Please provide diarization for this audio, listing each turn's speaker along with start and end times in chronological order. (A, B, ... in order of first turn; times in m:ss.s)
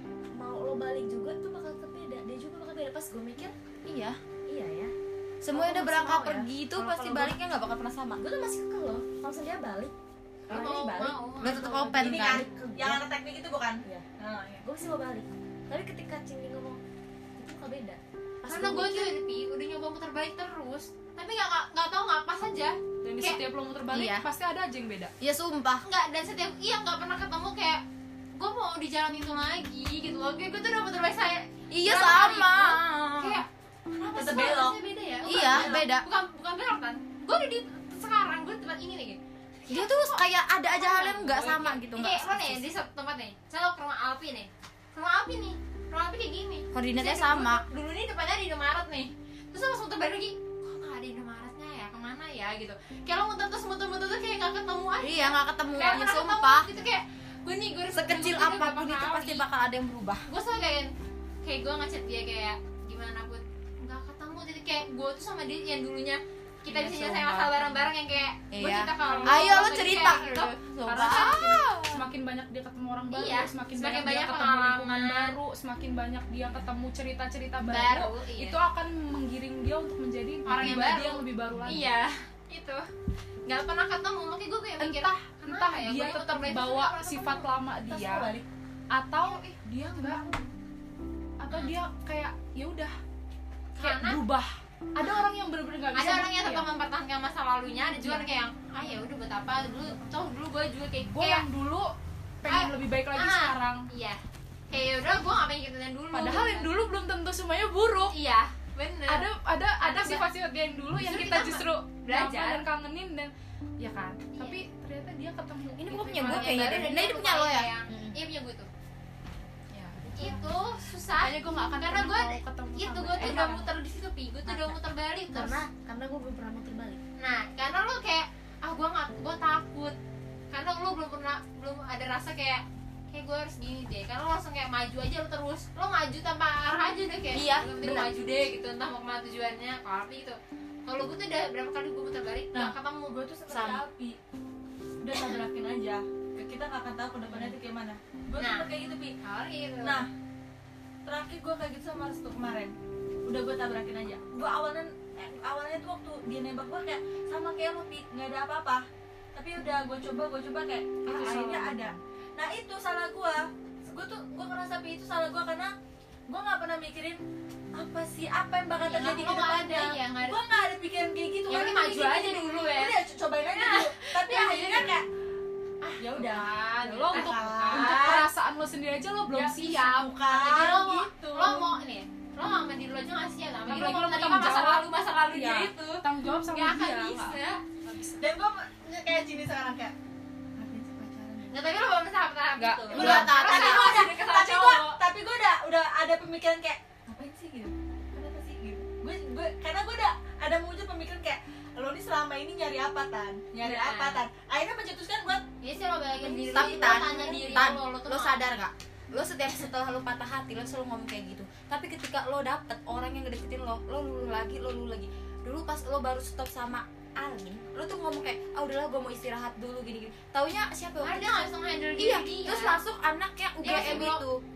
0:00.3-0:03.5 A
0:03.8-0:04.2 B
0:04.5-0:04.9 A
0:05.4-0:08.2 B
0:05.5-0:07.4 A
0:08.2-0:09.9 A
0:10.5-0:11.2 A
0:10.5-0:11.8 C
0:11.4-0:12.4 B
0:11.6-0:12.3 D
0:12.0-0:13.0 A
0:12.0-0:14.6 E
0:14.6-0:16.8 A
0:17.4-0:19.1 A
0:18.4-0:23.4 C
0:23.0-0:25.1 D
0:23.9-0:24.3 B
0:25.2-0:25.8 B
0:25.8-0:27.8 C
0:28.4-0:59.4 C
0:31.7-0:33.4 B
0:34.1-0:34.8 E
0:35.2-0:36.1 B
0:35.4-0:35.8 E
0:39.7-0:42.7 B
0:46.7-0:47.6 B
0:55.0-0:56.7 B
0:57.9-1:00.3 B
1:00.3-1:00.9 C
1:01.4-1:10.5 C
1:06.6-1:07.8 B
1:08.5-1:12.0 B
1:09.0-1:09.6 D
1:10.8-1:21.9 D
1:11.0-1:11.9 C
1:13.1-1:15.3 C
1:17.6-1:18.6 C
1:20.4-1:22.8 C
1:20.6-1:20.9 B
1:23.4-1:27.4 C
1:24.8-1:28.4 D
1:27.9-1:28.4 E
1:28.9-1:30.3 D
1:29.2-1:29.6 C
1:31.4-1:33.0 D
1:31.5-1:31.8 C
1:33.8-1:34.2 C
1:33.8-1:36.7 D
1:35.0-1:35.3 C
1:35.9-1:41.5 C
1:38.0-1:38.3 D
1:41.1-1:43.9 D
1:42.4-1:46.8 C
1:46.1-1:48.2 D
1:48.1-1:49.3 C
1:49.1-1:56.9 D
1:49.8-1:50.2 C
1:51.0-1:52.7 C
1:54.3-1:54.6 C
1:55.8-1:57.7 B
1:56.1-1:58.7 C
1:57.9-1:58.2 A
1:59.7-2:00.4 D
2:00.1-2:05.6 C
2:01.2-2:03.7 D
2:04.4-2:04.8 A
2:05.3-2:07.0 A
2:07.2-2:10.0 C
2:10.5-2:23.2 C
2:17.3-2:18.2 B
2:22.5-2:24.2 E
2:23.5-2:23.8 B
2:25.0-2:29.1 E
2:28.4-2:30.0 C
2:29.8-2:30.1 E
2:31.0-2:32.7 E
2:33.2-2:38.8 E
2:39.3-2:45.7 E
2:41.4-2:41.7 B
2:46.3-2:47.2 E
2:47.7-2:55.0 E
2:48.8-2:50.4 C
2:51.5-2:55.0 C
2:55.8-2:58.2 C
2:56.0-2:58.3 E
2:56.9-3:00.0 D
2:59.3-3:01.7 E
2:59.5-3:07.6 C
3:03.6-3:08.2 D
3:08.2-3:09.9 E
3:10.6-3:11.8 E
3:11.5-3:15.0 C
3:12.6-3:14.0 B
3:12.9-3:25.4 E
3:12.9-3:13.2 D
3:23.6-3:24.2 C
3:25.6-3:28.4 C
3:26.5-3:44.4 B
3:26.6-3:27.3 A
3:27.0-3:27.5 D
3:41.0-3:42.8 C
3:43.6-3:44.2 C